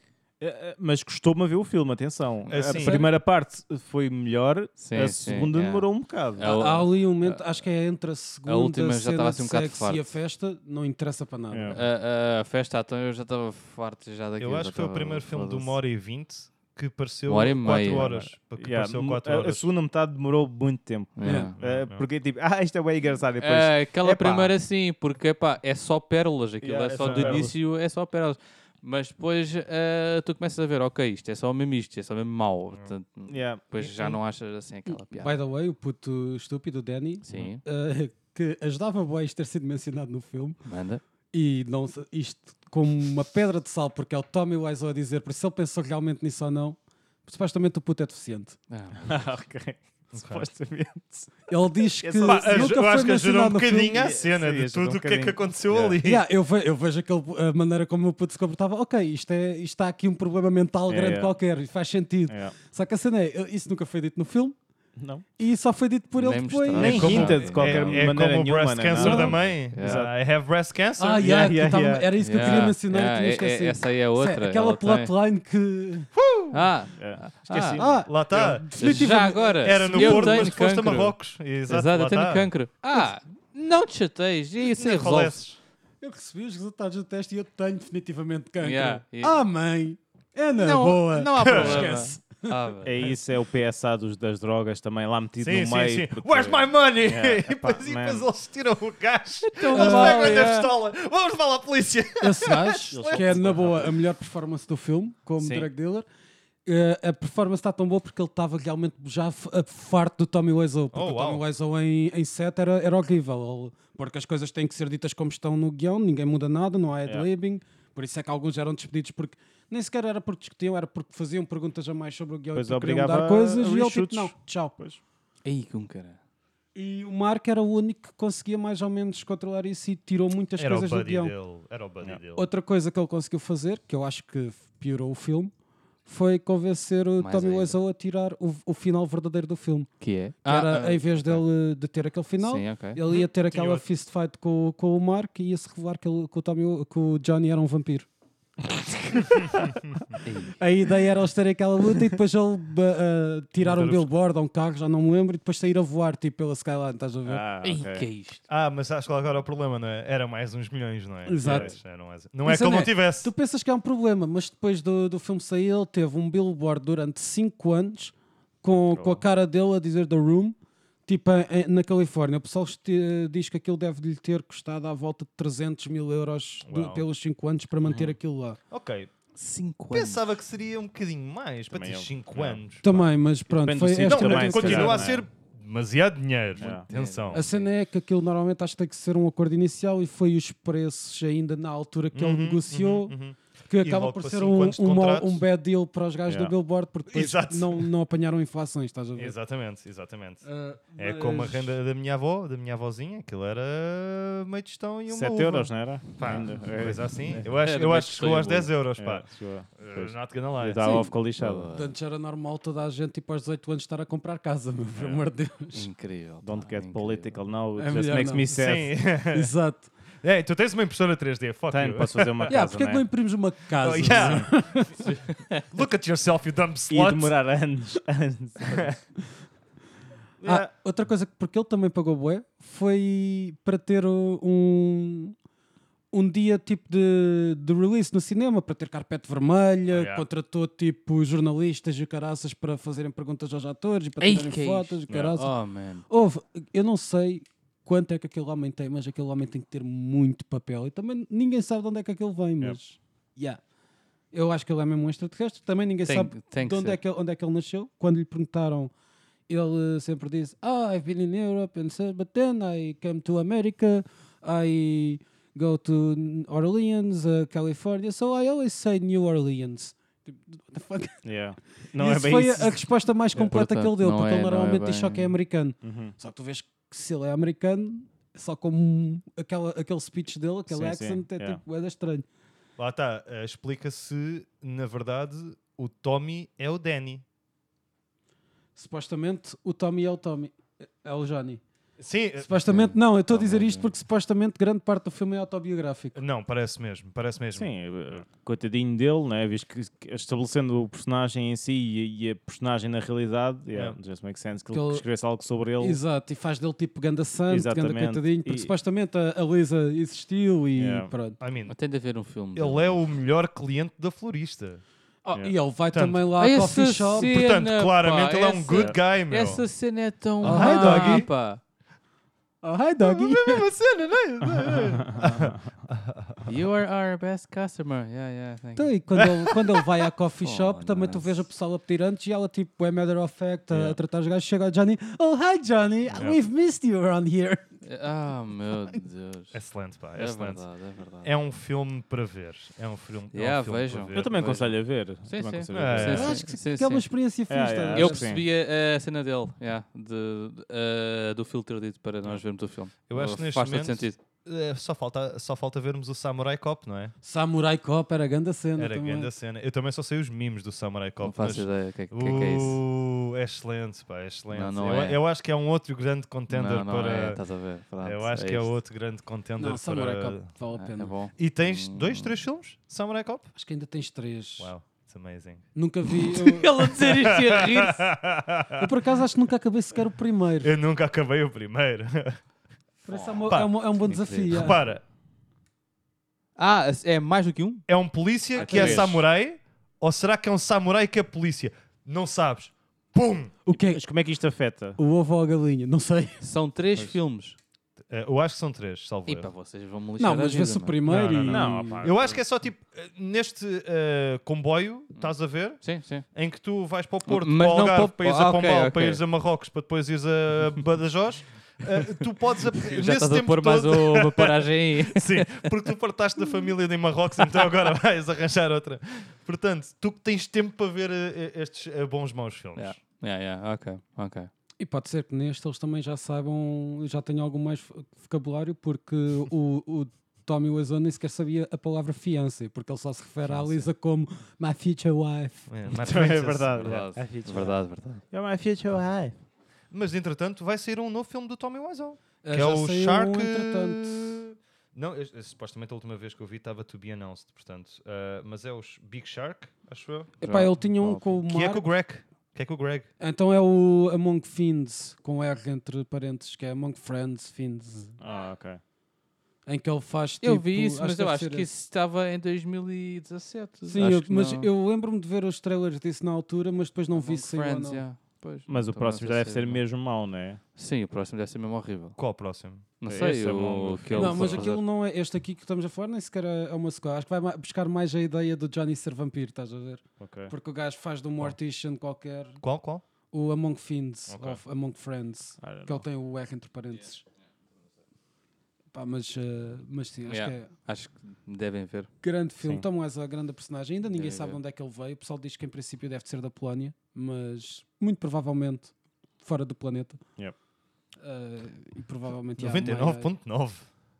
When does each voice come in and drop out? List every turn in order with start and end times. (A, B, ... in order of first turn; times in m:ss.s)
0:00.4-0:06.6 A
0:02.5-0:03.0 B
0:04.8-0:07.4 C
0:06.4-0:11.8 D
0:08.4-0:10.1 C
0:11.5-0:11.8 A
0:11.7-0:15.8 C
0:14.4-0:19.7 B
0:17.3-0:18.3 C
0:18.6-0:24.5 A
0:21.2-0:21.5 C
0:21.2-0:21.5 D
0:21.6-0:22.0 B
0:23.4-0:35.3 C
0:26.6-0:27.6 A
0:27.0-0:27.4 B
0:33.3-0:34.2 A
0:35.1-0:40.6 D
0:37.2-0:37.6 C
0:40.6-0:41.0 C
0:41.3-0:48.6 D
0:48.7-0:49.2 C
0:49.0-0:51.3 A
0:50.1-0:50.5 B
0:51.5-0:54.1 D
0:52.0-0:52.8 A
0:52.2-0:56.2 B
0:53.9-0:56.0 A
0:56.0-1:04.6 D
1:00.9-1:01.3 A
1:02.3-1:02.5 A
1:05.0-1:05.2 A
1:05.4-1:07.4 D
1:06.2-1:08.1 C
1:06.7-1:10.1 A
1:06.8-1:11.3 B
1:09.0-1:09.3 D
1:09.0-1:10.0 C
1:11.0-1:16.1 D
1:11.2-1:12.7 A
1:12.2-1:15.1 C
1:16.1-1:16.6 B
1:16.5-1:17.8 C
1:17.0-1:18.0 A
1:17.8-1:20.5 D
1:18.0-1:22.5 B
1:18.8-1:21.2 C
1:21.7-1:25.4 C
1:24.8-1:25.6 B
1:26.0-1:32.5 D
1:28.6-1:29.4 C
1:30.6-1:33.1 C
1:31.4-1:31.9 B
1:32.8-1:38.3 A
1:35.4-1:43.7 B
1:39.5-1:40.7 C
1:39.7-1:40.6 D
1:42.2-1:46.0 D
1:42.9-1:44.0 A
1:46.6-2:04.7 D
1:50.9-1:51.4 B
2:02.5-2:05.0 A
2:05.4-2:06.2 C
2:06.7-2:11.3 D
2:10.6-2:12.5 B
2:12.4-2:15.5 D
2:16.0-2:19.9 D
2:17.2-2:17.8 C
2:20.0-2:21.4 C
2:20.4-2:28.1 D
2:22.4-2:23.0 C
2:23.1-2:23.8 B
2:28.6-2:29.8 D
2:30.2-2:30.6 C
2:30.5-2:37.4 D
2:33.6-2:34.1 B
2:37.2-2:38.1 A
2:37.6-2:38.4 C
2:38.5-2:43.3 B
2:41.2-2:41.7 D
2:41.4-2:41.8 A
2:42.4-2:58.6 D
2:48.9-2:49.2 A
2:56.6-2:57.0 B
2:57.8-2:58.1 A
2:58.7-2:59.1 B
2:59.3-3:00.2 C
2:59.9-3:03.1 B
3:01.7-3:02.6 A
3:02.8-3:05.1 D
3:03.5-3:05.2 A
3:04.0-3:07.4 B
3:06.6-3:06.8 A
3:06.6-3:07.7 C
3:07.3-3:13.1 D
3:12.1-3:15.4 B
3:13.7-3:19.4 D
3:16.3-3:16.5 A
3:17.1-3:17.9 B
3:19.2-3:20.4 B
3:20.4-3:21.8 D
3:21.0-3:31.0 B
3:25.1-3:27.5 A
3:27.4-3:28.7 C
3:29.0-3:31.7 A
3:30.8-3:31.9 C
3:31.7-3:35.9 D
3:35.0-3:35.2 B
3:35.7-3:37.4 C
3:36.4-3:39.0 A
3:37.8-3:38.6 D
3:38.5-3:39.5 B
3:39.3-3:39.9 D
3:40.2-3:42.5 B
3:41.7-3:43.0 A
3:42.5-3:45.1 D
3:43.8-3:47.3 B
3:44.1-3:44.4 A
3:46.9-3:49.0 A
3:50.4-3:50.7 A
3:50.4-3:55.3 D
3:56.1-4:05.5 D
3:59.9-4:00.2 B
4:04.2-4:06.0 C
4:06.1-4:13.6 D
4:14.3-4:18.9 D
4:16.0-4:17.0 C
4:19.5-4:31.2 D
4:31.2-4:32.8 A
4:31.9-4:42.2 D
4:33.3-4:35.3 C
4:35.8-4:36.1 A
4:40.7-4:41.6 A
4:42.8-4:47.2 B
4:48.8-4:51.6 D
4:52.0-4:52.6 B
4:52.4-4:56.2 D
4:52.7-4:53.8 C
4:56.1-4:57.7 B
4:57.5-5:06.0 A
5:03.7-5:04.0 B
5:04.7-5:05.0 D
5:05.8-5:11.4 D
5:07.5-5:08.7 A
5:10.8-5:11.1 A
5:11.4-5:11.8 B
5:11.7-5:13.0 C
5:12.5-5:14.8 B
5:15.2-5:17.3 D
5:15.9-5:16.3 B
5:16.4-5:21.6 C
5:17.2-5:19.6 B
5:20.4-5:21.3 D
5:20.4-5:21.3 B
5:22.6-5:23.6 D
5:23.0-5:26.5 B
5:26.4-5:28.9 C
5:28.8-5:37.7 D
5:30.4-5:31.4 C
5:33.7-5:34.0 B
5:36.1-5:36.4 B
5:37.8-5:39.6 C
5:39.5-5:40.6 B
5:40.2-5:41.3 C
5:41.2-5:44.4 B
5:43.3-5:47.1 C
5:44.1-5:46.3 A
5:45.7-5:46.4 B
5:46.0-5:48.2 D
5:47.5-5:48.4 A
5:47.9-5:54.2 C
5:52.2-5:57.1 B
5:57.2-5:59.3 D
5:58.8-6:07.4 B
6:01.2-6:02.8 C
6:04.5-6:05.2 C
6:06.5-6:08.8 C
6:08.0-6:10.5 B
6:09.6-6:11.1 D
6:10.7-6:12.3 C
6:11.4-6:13.5 B
6:13.5-6:14.7 D
6:14.6-6:15.7 B
6:15.7-6:16.7 D
6:16.3-6:18.0 C
6:17.0-6:17.2 B
6:17.8-6:18.8 B
6:18.8-6:20.7 D
6:20.6-6:22.4 B
6:23.0-6:24.8 D
6:23.1-6:23.5 C
6:23.5-6:25.0 B
6:24.0-6:24.7 C
6:26.6-6:27.8 C
6:27.9-6:33.6 B
6:28.6-6:29.1 C
6:28.6-6:29.2 A
6:28.6-6:29.0 D
6:33.6-6:34.0 D
6:33.7-6:35.0 A
6:35.0-6:36.4 D
6:36.4-6:37.6 C
6:38.1-6:39.5 B
6:39.3-6:41.0 C
6:40.2-6:42.1 D
6:41.0-7:03.0 B
6:41.4-6:42.4 A
6:45.1-6:46.2 C
6:47.3-6:49.2 C
6:52.8-6:55.7 C
7:02.8-7:04.5 C
7:04.8-7:15.7 D
7:13.5-7:13.8 C
7:15.7-7:17.0 B
7:15.9-7:19.3 A
7:16.7-7:18.2 C
7:19.9-7:30.4 B
7:22.4-7:24.2 D
7:30.4-7:31.8 D
7:30.4-7:31.1 C
7:31.4-7:33.1 B
7:33.2-7:38.2 D
7:38.2-7:38.8 A
7:39.6-7:41.7 D
7:40.4-7:44.7 C
7:43.9-7:48.0 D
7:47.1-7:49.8 C
7:48.7-7:50.6 A
7:50.8-7:52.2 C
7:52.2-7:52.9 B
7:53.0-7:54.8 C
7:53.1-7:54.6 A
7:54.1-8:02.6 D
8:00.2-8:00.5 A
8:02.6-8:03.0 B
8:03.3-8:07.2 D
8:04.3-8:04.6 B
8:05.6-8:06.0 A
8:08.9-8:10.7 D
8:10.2-8:12.1 C
8:12.2-8:20.2 D
8:14.1-8:14.6 C
8:21.2-8:23.3 D
8:22.6-8:23.9 B